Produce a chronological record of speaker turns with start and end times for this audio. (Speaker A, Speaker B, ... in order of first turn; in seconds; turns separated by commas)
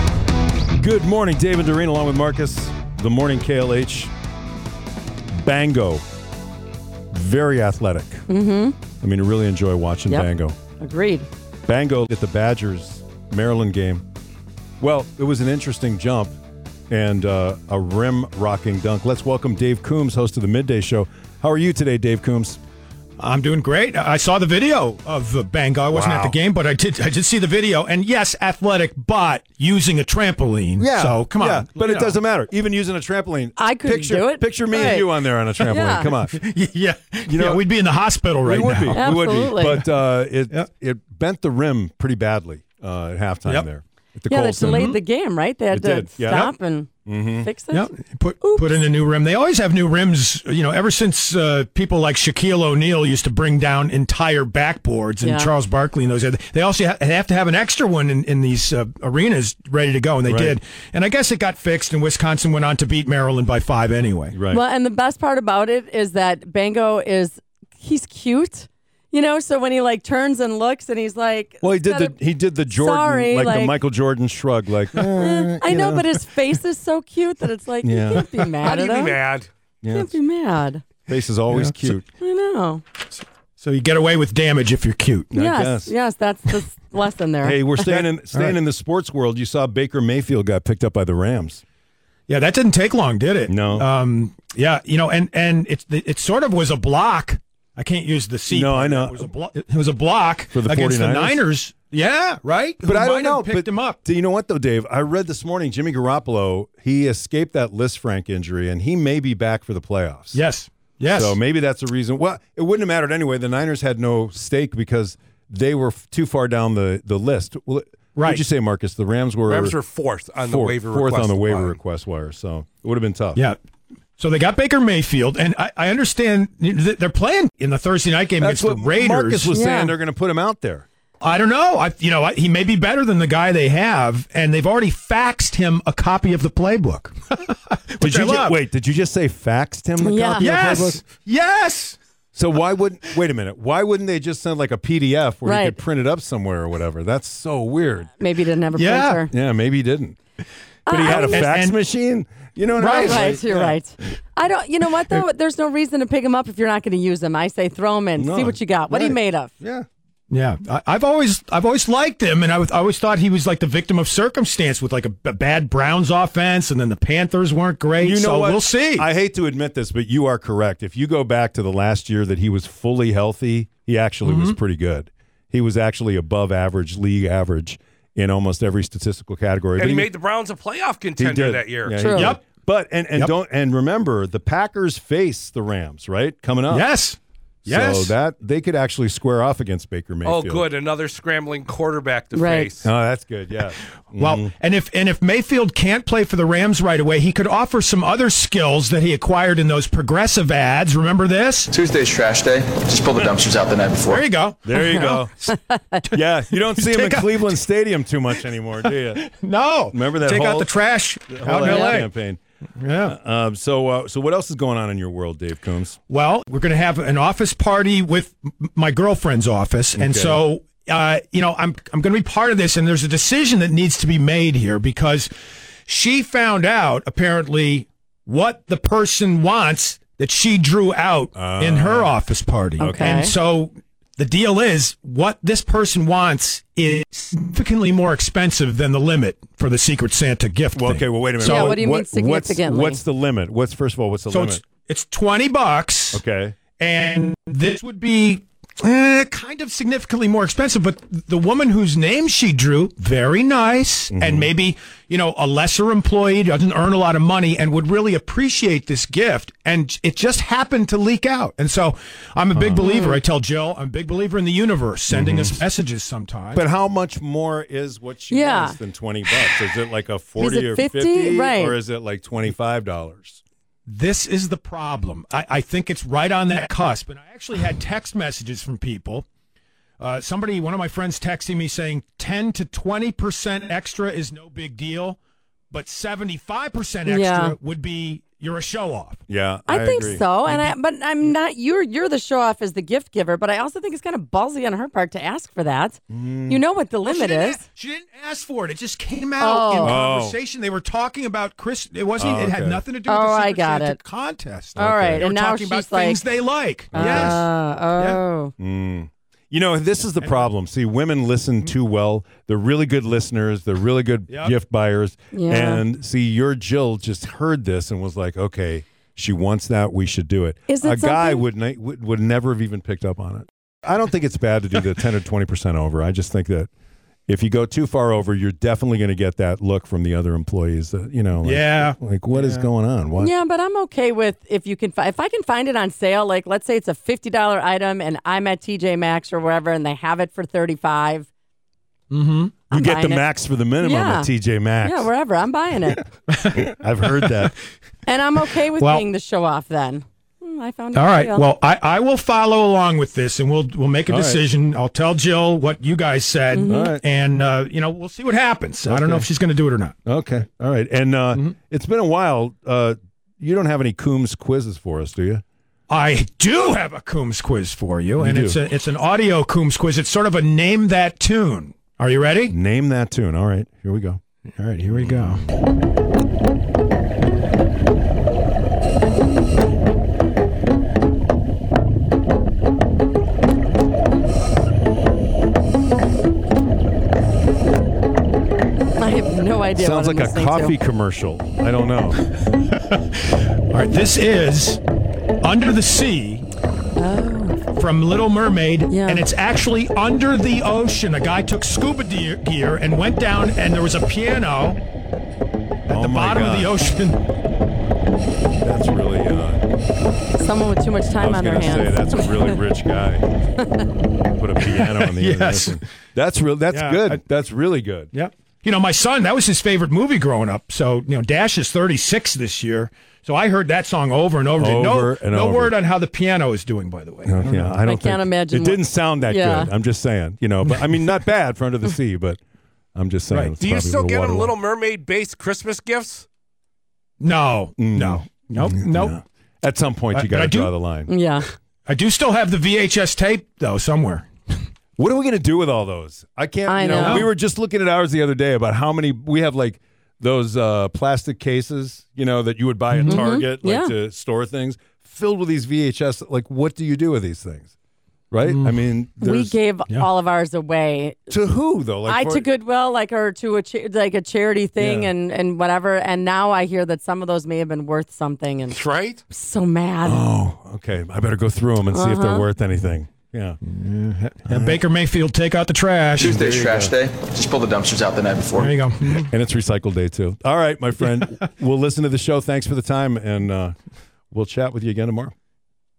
Speaker A: 0.7-4.1, Speaker A: 5.3-6.0, Speaker A: 7.1-8.2, Speaker B: 8.3-8.8, Speaker A: 9.0-10.6, Speaker B: 10.8-11.3, Speaker A: 11.7-14.0, Speaker A: 14.8-16.3, Speaker A: 16.9-22.6, Speaker C: 23.2-32.1, Speaker A: 25.9-26.4, Speaker A: 30.8-36.4, Speaker B: 33.6-35.1, Speaker B: 35.6-36.1, Speaker C: 35.9-39.1, Speaker A: 37.3-37.6, Speaker A: 38.4-45.0, Speaker B: 38.9-39.8, Speaker B: 44.3-48.8, Speaker C: 44.6-45.0, Speaker A: 45.7-46.5, Speaker C: 46.2-46.5, Speaker A: 47.0-47.5, Speaker C: 47.7-64.4, Speaker B: 55.2-55.5, Speaker A: 60.2-60.6, Speaker A: 64.3-64.6, Speaker B: 64.5-73.8, Speaker A: 71.6-76.2, Speaker B: 75.1-79.2, Speaker A: 77.8-78.5, Speaker D: 78.6-79.5, Speaker A: 79.8-80.2, Speaker B: 79.9-80.8, Speaker A: 81.1-82.1, Speaker C: 81.5-82.0, Speaker B: 82.2-82.8, Speaker C: 83.6-85.3, Speaker A: 85.3-85.9, Speaker B: 85.3-88.0, Speaker A: 87.4-91.6, Speaker C: 88.3-88.6, Speaker C: 92.3-104.0, Speaker A: 93.5-93.9, Speaker A: 98.5-99.3, Speaker A: 100.5-101.4, Speaker A: 102.8-110.4, Speaker C: 110.3-111.4, Speaker A: 111.1-119.8, Speaker C: 118.2-118.4, Speaker D: 119.5-121.8, Speaker A: 120.4-123.4, Speaker C: 124.2-129.5, Speaker A: 128.4-130.8, Speaker B: 129.5-129.9, Speaker C: 131.2-138.6, Speaker A: 138.0-141.0, Speaker B: 140.0-140.5, Speaker C: 140.4-142.0, Speaker A: 142.3-148.1, Speaker B: 145.4-145.8, Speaker B: 148.2-149.3, Speaker C: 148.8-149.2, Speaker A: 149.3-150.2, Speaker B: 150.8-151.5, Speaker A: 150.9-153.8, Speaker C: 151.0-151.8, Speaker C: 152.8-153.4, Speaker B: 152.9-159.5, Speaker A: 158.2-159.8, Speaker C: 160.3-169.1, Speaker A: 168.0-180.1, Speaker C: 174.2-174.6, Speaker D: 179.8-182.0, Speaker A: 181.2-186.9, Speaker B: 182.0-182.3, Speaker C: 182.1-182.4, Speaker C: 186.7-188.1, Speaker A: 187.6-190.7, Speaker D: 190.2-192.9, Speaker B: 192.3-192.7, Speaker A: 192.8-194.5, Speaker C: 194.2-201.7, Speaker E: 201.7-204.2, Speaker C: 204.0-205.2, Speaker A: 204.6-205.3, Speaker B: 204.7-206.0, Speaker A: 206.0-209.3, Speaker C: 206.8-207.6, Speaker C: 209.1-212.1, Speaker A: 209.9-210.7, Speaker A: 211.3-212.4, Speaker B: 211.6-211.9, Speaker C: 212.8-213.1, Speaker A: 213.0-216.0, Speaker C: 216.1-225.3, Speaker A: 219.9-220.4, Speaker C: 225.9-241.8, Speaker A: 231.3-232.2, Speaker A: 232.8-233.3, Speaker B: 232.8-233.3, Speaker A: 240.7-244.6, Speaker B: 241.4-243.0, Speaker C: 244.3-246.2, Speaker A: 246.1-246.6, Speaker C: 246.8-266.6, Speaker A: 254.1-254.5, Speaker A: 262.5-262.8, Speaker B: 262.8-263.2, Speaker A: 265.1-265.6, Speaker A: 266.5-273.4, Speaker B: 268.3-268.8, Speaker B: 270.4-271.8, Speaker C: 273.9-279.2, Speaker C: 280.0-285.2, Speaker C: 285.7-289.2, Speaker B: 287.1-287.6, Speaker A: 289.3-290.3, Speaker B: 289.7-297.6, Speaker C: 290.4-290.7, Speaker A: 296.1-296.6, Speaker C: 297.0-308.2, Speaker B: 299.4-300.0, Speaker A: 299.8-300.4, Speaker A: 302.2-302.8, Speaker B: 303.1-304.0, Speaker A: 304.8-305.2, Speaker B: 304.8-306.2, Speaker A: 306.9-307.5, Speaker B: 306.9-308.5, Speaker A: 308.6-326.7, Speaker C: 310.2-310.5, Speaker C: 314.3-314.5, Speaker B: 315.3-315.8, Speaker B: 320.7-321.4, Speaker A: 327.3-333.3, Speaker C: 331.4-332.6, Speaker B: 333.2-341.3, Speaker C: 342.1-342.6, Speaker B: 342.7-346.1, Speaker A: 342.7-345.1, Speaker C: 346.3-346.7, Speaker A: 346.5-347.5, Speaker B: 348.1-351.5, Speaker C: 348.8-349.0, Speaker C: 350.9-359.9, Speaker A: 354.1-354.4, Speaker B: 356.5-357.0, Speaker A: 356.6-357.0, Speaker A: 358.9-359.2, Speaker A: 360.1-365.4, Speaker C: 365.9-372.5, Speaker A: 368.2-368.6, Speaker A: 372.5-374.2, Speaker C: 374.5-375.4, Speaker A: 374.9-375.4, Speaker B: 388.9-390.7, Speaker A: 389.8-392.2, Speaker C: 392.7-394.8, Speaker C: 395.4-396.5, Speaker B: 396.9-397.6, Speaker C: 397.7-404.8, Speaker B: 398.9-399.2, Speaker C: 405.9-407.2, Speaker A: 405.9-406.8, Speaker A: 408.6-409.6, Speaker B: 410.4-412.6, Speaker A: 411.2-413.2, Speaker B: 413.6-413.8, Speaker A: 414.4-418.1, Speaker C: 414.8-415.8, Speaker C: 416.7-417.2, Speaker C: 418.1-427.8, Speaker A: 424.6-425.8, Speaker A: 427.2-432.4, Speaker B: 427.8-429.7, Speaker A: 432.9-434.6, Speaker C: 433.3-433.6, Speaker D: 433.6-436.2, Speaker C: 437.2-439.2, Speaker A: 437.8-441.1, Speaker C: 440.1-440.7, Speaker B: 441.1-441.5, Speaker C: 441.9-444.2, Speaker A: 445.0-457.7, Speaker B: 446.7-447.3, Speaker C: 446.9-447.3, Speaker C: 452.9-453.2, Speaker B: 453.1-453.9, Speaker A: 458.3-459.6, Speaker C: 458.4-458.8, Speaker B: 459.2-461.3, Speaker A: 461.3-462.5, Speaker B: 462.0-468.8, Speaker A: 464.8-465.1, Speaker D: 468.7-469.2, Speaker B: 469.3-470.2, Speaker A: 470.0-473.6, Speaker B: 471.9-472.5, Speaker C: 473.6-476.4, Speaker A: 474.5-474.8, Speaker E: 476.2-478.7, Speaker A: 476.2-476.9, Speaker C: 478.5-479.3, Speaker A: 479.2-483.8, Speaker A: 484.3-485.3